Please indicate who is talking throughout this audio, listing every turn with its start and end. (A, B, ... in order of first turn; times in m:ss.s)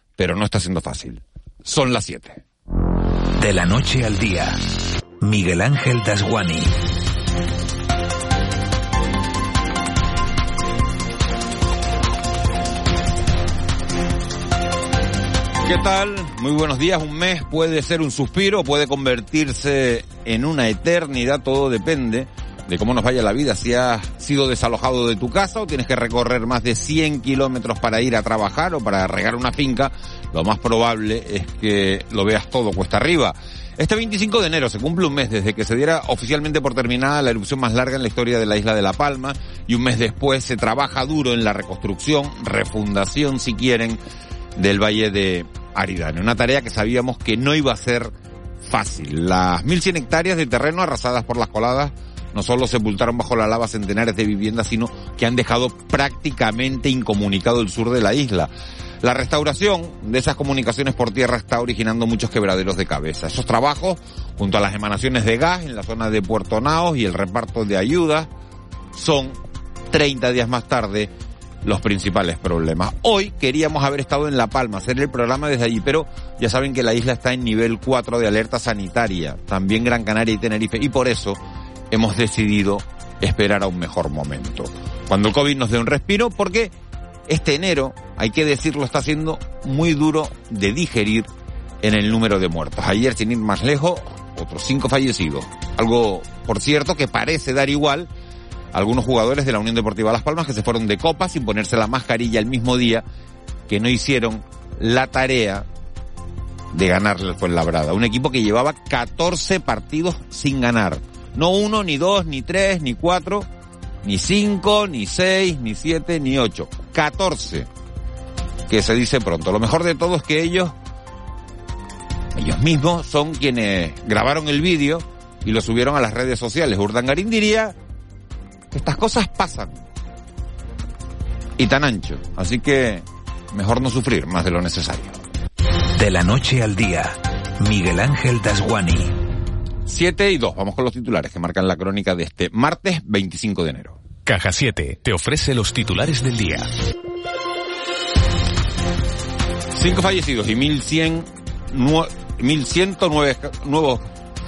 0:00.2-0:02.4 A
0:03.4-0:04.6 B
0:05.2-0:06.8 B
0:15.6-0:44.0 A
0:44.6-0:48.1 A
0:48.6-0:58.5 A
0:59.0-1:08.3 A
1:08.9-1:09.4 A
1:09.9-1:11.1 A
1:11.6-1:21.4 A
1:21.9-1:26.7 A
1:27.3-1:31.3 A
1:31.8-1:38.1 A
1:38.7-1:43.0 A
1:43.7-1:45.6 A
1:46.7-1:53.5 A
1:54.0-1:57.7 A
1:58.7-2:00.7 A
2:02.3-2:07.8 A
2:08.7-2:09.8 A
2:11.6-2:15.2 A
2:16.0-2:19.2 B
2:19.8-2:24.0 A
2:24.2-2:26.7 B
2:29.7-2:34.0 A